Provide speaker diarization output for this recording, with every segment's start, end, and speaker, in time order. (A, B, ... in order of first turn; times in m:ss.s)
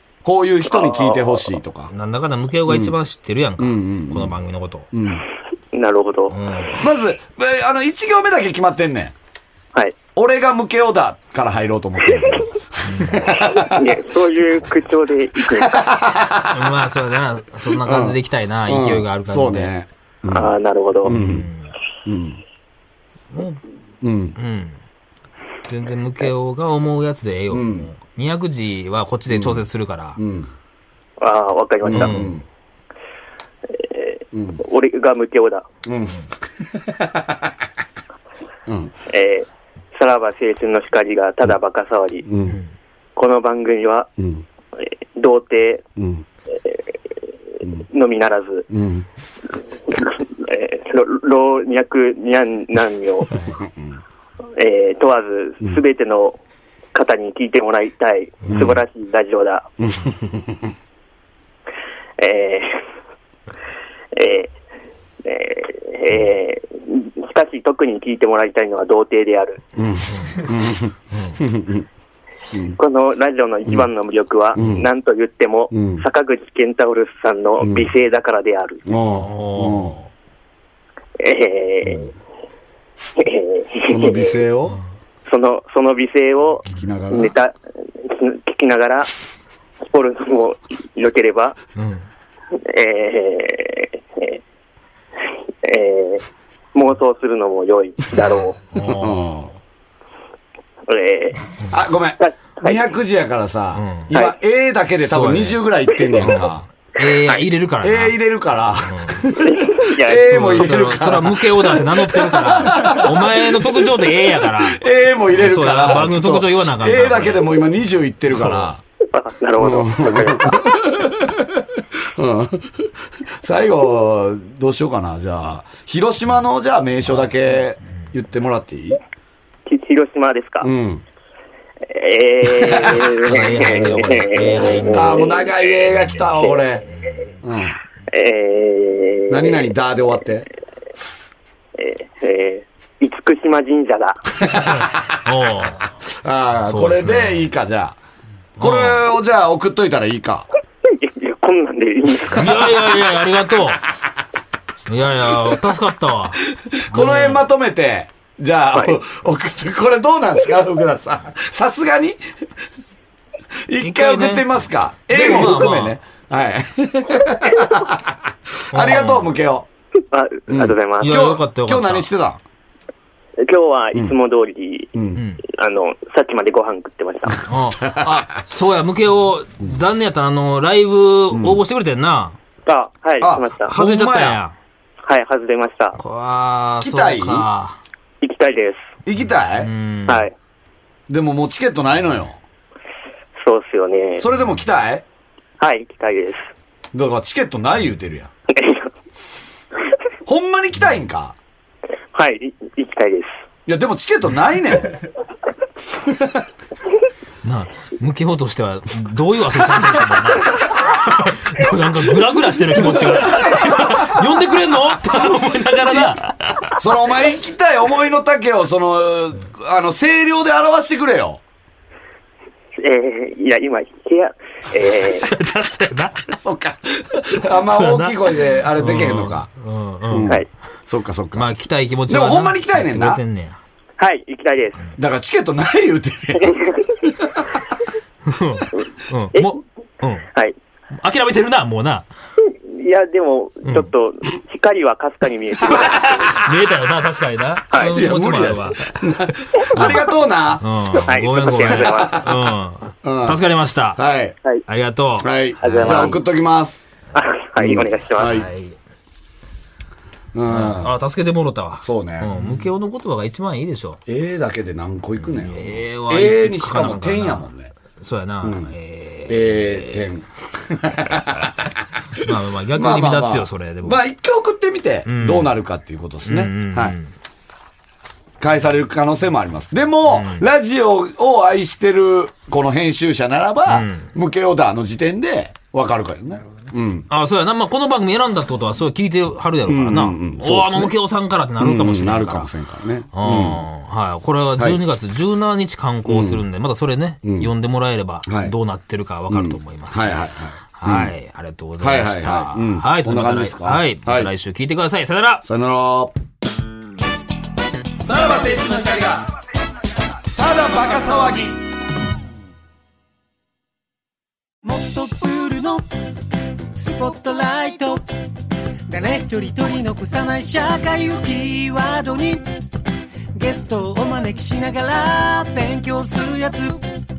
0:00.2-0:01.9 A
0:00.7-0:01.4 B
0:01.9-0:04.9 C
0:02.6-0:02.9 A
0:03.6-0:04.4 A
0:04.9-0:05.2 A
0:05.7-0:06.3 B
0:06.3-0:06.9 C
0:06.8-0:09.1 A
0:10.1-0:13.7 A
0:12.8-0:13.4 C
0:13.4-0:15.8 B
0:15.7-0:16.7 A
0:16.4-0:19.7 C
0:17.8-0:21.5 A
0:20.3-0:21.1 B
0:21.0-0:21.7 C
0:22.0-0:22.4 A
0:23.3-0:23.6 C
0:24.0-0:24.4 A
0:24.4-0:24.8 C
0:25.7-0:30.2 C
0:27.5-0:27.9 A
0:29.3-0:29.6 A
0:30.2-0:30.5 A
0:31.2-0:32.3 B
0:31.8-0:32.4 C
0:31.8-0:32.4 A
0:33.7-0:35.6 B
0:34.3-0:34.6 A
0:35.8-0:37.5 A
0:38.7-0:38.9 A
0:39.1-0:42.3 B
0:42.2-0:42.6 A
0:43.2-0:44.1 B
0:44.2-0:44.4 A
0:44.8-0:45.8 B
0:46.0-0:46.2 A
0:46.6-0:46.9 B
0:47.6-0:48.7 B
0:48.7-0:49.0 A
0:49.9-0:53.3 B
0:53.3-0:53.7 C
0:54.6-0:56.4 B
0:56.9-0:59.7 B
0:58.4-0:58.8 C
0:58.5-0:58.8 A
0:59.8-1:00.7 A
1:02.2-1:02.7 B
1:04.1-1:04.5 B
1:05.2-1:09.6 B
1:09.8-1:11.8 A
1:10.1-1:10.5 C
1:11.1-1:11.4 C
1:12.7-1:18.8 B
1:14.6-1:14.9 A
1:15.7-1:16.0 A
1:17.6-1:17.9 A
1:18.8-1:20.0 A
1:19.1-1:20.1 C
1:21.2-1:22.1 B
1:23.2-1:24.3 B
1:23.9-1:24.8 A
1:25.2-1:29.1 B
1:26.6-1:27.3 A
1:29.8-1:31.6 B
1:31.8-1:32.1 C
1:32.6-1:34.4 B
1:35.6-1:38.6 B
1:38.7-1:39.3 C
1:38.9-1:39.5 A
1:40.9-1:41.5 B
1:41.7-1:46.6 A
1:42.2-1:42.8 B
1:43.7-1:44.1 C
1:45.0-1:45.6 C
1:46.2-1:48.2 C
1:47.0-1:47.4 B
1:47.8-1:58.8 A
1:48.8-1:49.2 C
1:49.3-1:50.3 B
1:50.2-1:57.5 C
1:58.3-1:58.7 C
1:59.1-2:00.8 B
1:59.6-2:09.0 A
2:09.6-2:10.7 B
2:10.6-2:11.0 A
2:11.8-2:15.8 B
2:12.5-2:14.0 A
2:13.1-2:15.2 C
2:14.9-2:16.8 A
2:16.0-2:17.3 C
2:16.4-2:16.8 B
2:17.4-2:17.8 A
2:18.1-2:19.7 B
2:19.3-2:20.5 A
2:21.8-2:24.3 B
2:24.5-2:25.8 C
2:24.6-2:25.1 A
2:26.2-2:28.0 A
2:26.6-2:27.5 C
2:28.6-2:29.0 C
2:28.6-2:30.5 A
2:30.8-2:32.9 B
2:32.3-2:33.8 C
2:34.9-2:37.4 C
2:36.7-2:42.2 A
2:38.7-2:39.0 B
2:43.7-2:49.6 A
2:43.8-2:44.5 C
2:45.1-2:46.0 C
2:48.7-2:49.3 C
2:50.1-2:51.2 B
2:50.5-2:52.4 A
2:51.0-2:52.1 C
2:53.4-2:54.9 B
2:54.9-2:55.2 A
2:55.1-2:55.4 C
2:55.5-2:57.4 B
2:57.4-3:02.4 C
2:57.9-2:58.2 A
3:01.3-3:01.6 A
3:02.6-3:03.7 B
3:03.2-3:04.4 A
3:03.7-3:04.6 C
3:05.1-3:06.0 B
3:06.0-3:07.8 C
3:06.8-3:07.5 A
3:08.2-3:08.8 B
3:09.0-3:09.7 A
3:09.1-3:10.2 C
3:10.1-3:10.3 B
3:11.1-3:12.4 A
3:13.4-3:14.2 B
3:14.2-3:15.0 A
3:15.6-3:16.4 B
3:16.9-3:18.3 A
3:18.5-3:18.9 B
3:20.2-3:21.4 A
3:22.1-3:23.3 B
3:23.7-3:25.0 A
3:26.1-3:26.4 A
3:27.4-3:36.8 C
3:36.8-3:41.4 A
3:42.8-3:45.2 B
3:44.8-3:46.3 C
3:46.3-3:49.5 A
3:47.4-3:50.4 C
3:50.1-3:51.5 A
3:51.3-3:53.6 C
3:52.1-3:53.2 A
3:54.0-3:54.9 B
3:55.0-3:57.5 A
3:56.4-3:56.8 B
3:58.2-4:00.3 C
4:00.9-4:02.1 C
4:02.6-4:06.4 B
4:05.7-4:09.1 C
4:07.7-4:08.0 B
4:07.9-4:11.0 A
4:09.7-4:14.0 C
4:11.0-4:12.2 B
4:11.8-4:12.3 A
4:13.0-4:14.4 A
4:14.7-4:16.2 C
4:15.2-4:16.8 A
4:15.6-4:16.2 B
4:17.1-4:18.4 B
4:17.6-4:18.5 A
4:18.2-4:18.8 C
4:20.3-4:21.0 A
4:20.5-4:24.0 C
4:21.8-4:22.5 A
4:24.1-4:27.7 A
4:25.2-4:30.0 C
4:28.4-4:28.7 A
4:29.3-4:31.5 A
4:32.2-4:34.0 C
4:32.7-4:37.0 A
4:35.0-4:35.5 C
4:36.2-4:37.1 C
4:38.4-4:47.1 A
4:40.1-4:40.5 C
4:43.7-4:44.1 C
4:47.1-4:52.5 C
4:49.6-4:51.0 A
4:51.6-4:53.6 A
4:53.1-5:05.4 C
4:56.0-4:56.4 A
4:57.2-4:57.5 A
4:58.2-4:58.5 A
4:59.3-5:01.1 A
5:01.8-5:04.3 A
5:05.4-5:06.1 A
5:08.0-5:09.3 A
5:10.2-5:11.6 A
5:14.6-5:15.8 D
5:16.7-5:18.0 D
5:18.9-5:22.5 D
5:23.3-5:26.8 D